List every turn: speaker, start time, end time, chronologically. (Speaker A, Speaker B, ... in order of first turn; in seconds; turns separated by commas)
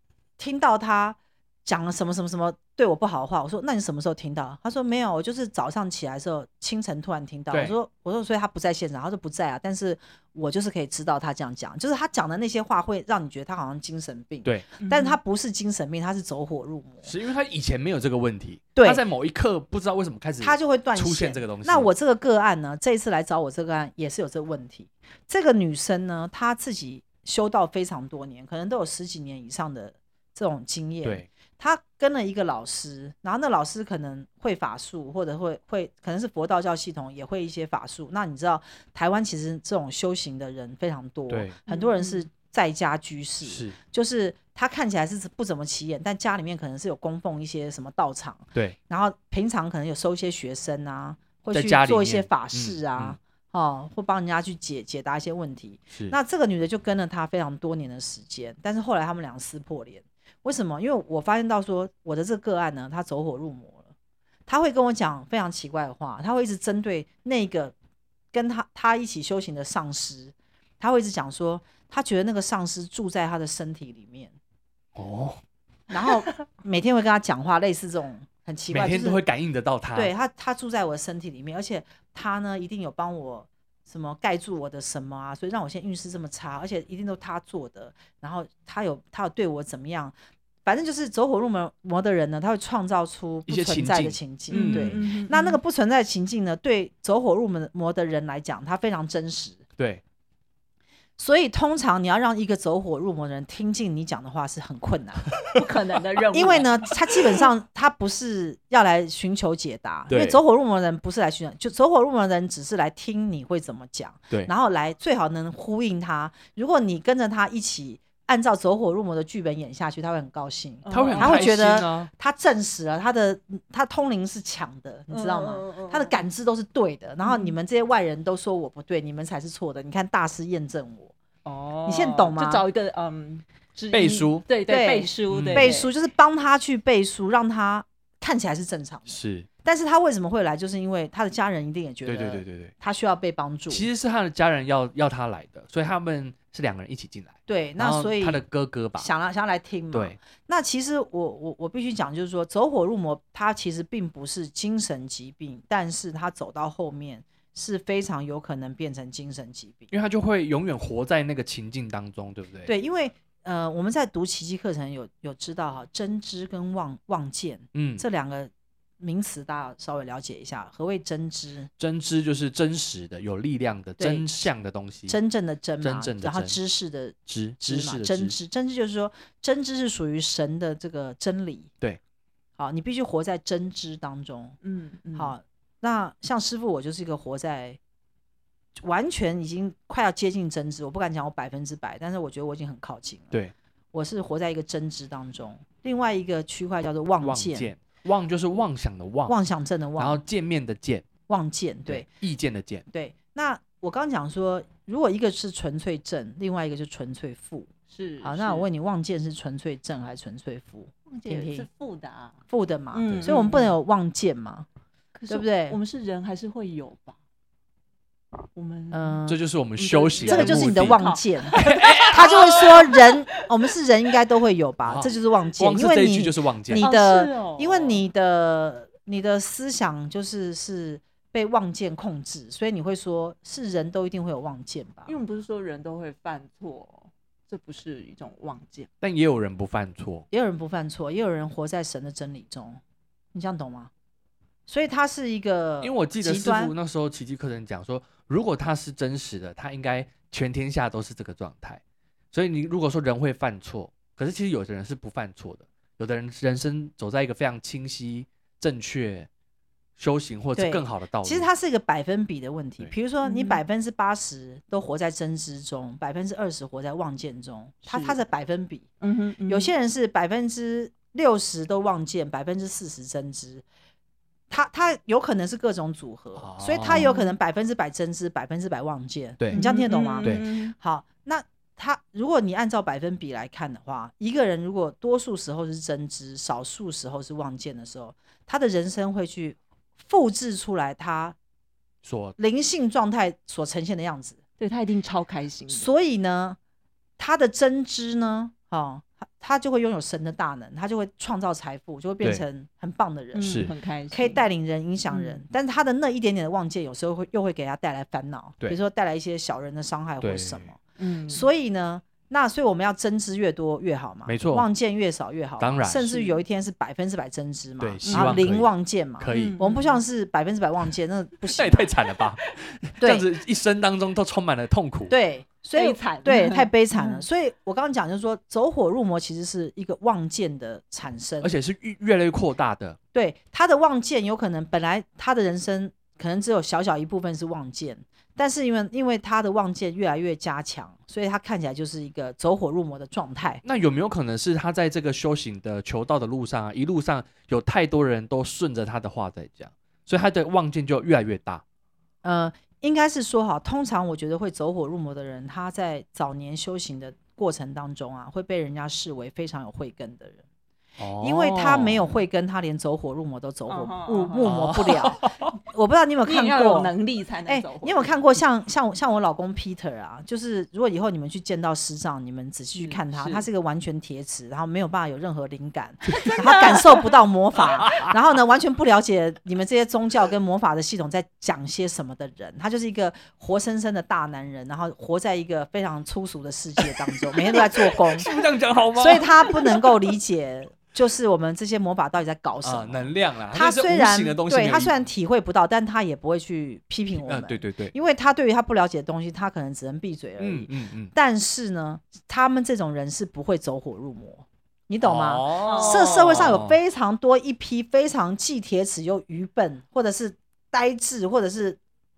Speaker A: 0.4-17.1, Speaker B: 14.8-15.2, Speaker C: 17.0-21.9, Speaker A: 18.8-19.0, Speaker A: 20.4-63.9, Speaker C: 41.3-41.6, Speaker B: 41.7-42.2, Speaker C: 43.4-43.8, Speaker C: 51.5-53.2, Speaker A: 64.5-67.7, Speaker A: 68.3-74.3, Speaker C: 75.0-75.4, Speaker A: 75.9-79.2, Speaker C: 78.7-80.1, Speaker A: 79.9-90.1, Speaker A: 90.6-99.6, Speaker C: 93.5-95.0, Speaker B: 94.5-95.6, Speaker A: 101.2-105.4, Speaker B: 105.5-107.2, Speaker A: 106.3-131.1, Speaker C: 110.1-110.4, Speaker B: 120.8-121.5, Speaker C: 120.9-122.1, Speaker B: 125.1-126.2, Speaker B: 127.2-127.6, Speaker B: 131.4-135.9, Speaker A: 131.9-132.6, Speaker C: 133.9-134.4, Speaker A: 134.7-143.9, Speaker C: 135.3-135.8, Speaker C: 139.1-139.5, Speaker C: 142.1-142.7, Speaker C: 143.7-149.1, Speaker A: 147.5-148.4, Speaker A: 149.0-159.9, Speaker C: 149.9-150.2, Speaker C: 159.9-162.7, Speaker A: 162.7-171.7, Speaker C: 167.7-168.0, Speaker C: 171.8-175.2, Speaker A: 174.0-174.5, Speaker A: 175.1-181.7, Speaker C: 175.8-176.6, Speaker C: 177.3-178.4, Speaker A: 182.6-184.6, Speaker B: 184.6-185.3, Speaker A: 185.1-187.8, Speaker A: 188.8-193.4, Speaker A: 193.9-197.7, Speaker C: 197.2-199.4, Speaker A: 199.3-200.2, Speaker C: 200.0-201.1, Speaker A: 201.3-202.1, Speaker C: 201.9-202.8, Speaker A: 202.9-207.7, Speaker B: 207.9-208.7, Speaker A: 208.2-211.7, Speaker B: 211.1-212.4, Speaker A: 212.5-214.7, Speaker B: 212.9-213.8, Speaker C: 213.0-213.3, Speaker B: 215.1-217.2, Speaker A: 215.3-215.8, Speaker B: 218.5-219.2, Speaker A: 218.9-219.4, Speaker C: 219.3-222.5, Speaker B: 219.8-223.7, Speaker A: 220.2-235.2, Speaker C: 224.8-226.9, Speaker B: 226.8-228.1, Speaker B: 235.1-238.9, Speaker C: 239.0-240.2, Speaker A: 240.3-242.8, Speaker A: 243.3-243.9, Speaker A: 244.7-246.7, Speaker C: 245.8-259.3, Speaker C: 260.0-261.5, Speaker A: 260.6-268.9, Speaker B: 263.2-263.6, Speaker B: 267.9-268.2, Speaker B: 269.0-269.7, Speaker A: 269.5-273.6, Speaker A: 274.5-291.4, Speaker C: 276.4-277.1, Speaker B: 276.9-277.4, Speaker B: 279.5-280.8, Speaker C: 292.0-292.4, Speaker A: 292.4-294.4, Speaker B: 294.6-295.9, Speaker A: 295.7-296.6, Speaker A: 297.2-310.8, Speaker B: 303.3-304.4, Speaker C: 303.4-303.7, Speaker B: 305.1-305.4, Speaker C: 310.2-310.7, Speaker B: 311.0-311.5, Speaker A: 311.3-321.9, Speaker C: 314.2-314.7, Speaker C: 315.6-316.2, Speaker C: 317.8-319.6, Speaker B: 318.1-318.4, Speaker B: 319.3-320.0, Speaker C: 321.5-325.1, Speaker A: 323.0-323.3, Speaker A: 325.1-331.5, Speaker B: 325.8-327.2, Speaker C: 331.4-333.0, Speaker A: 333.1-343.6, Speaker C: 343.6-351.6, Speaker A: 352.2-360.4, Speaker C: 361.0-362.0, Speaker A: 361.2-366.9, Speaker B: 363.7-364.5, Speaker C: 364.4-365.6, Speaker B: 366.2-368.2, Speaker A: 367.5-388.3, Speaker B: 372.8-373.5, Speaker C: 376.1-376.6, Speaker B: 376.1-377.1, Speaker C: 377.8-378.1, Speaker C: 387.3-389.9, Speaker A: 389.0-411.8, Speaker C: 392.6-395.0, Speaker C: 397.2-397.9, Speaker C: 400.4-401.1, Speaker C: 405.0-406.8, Speaker B: 405.6-406.4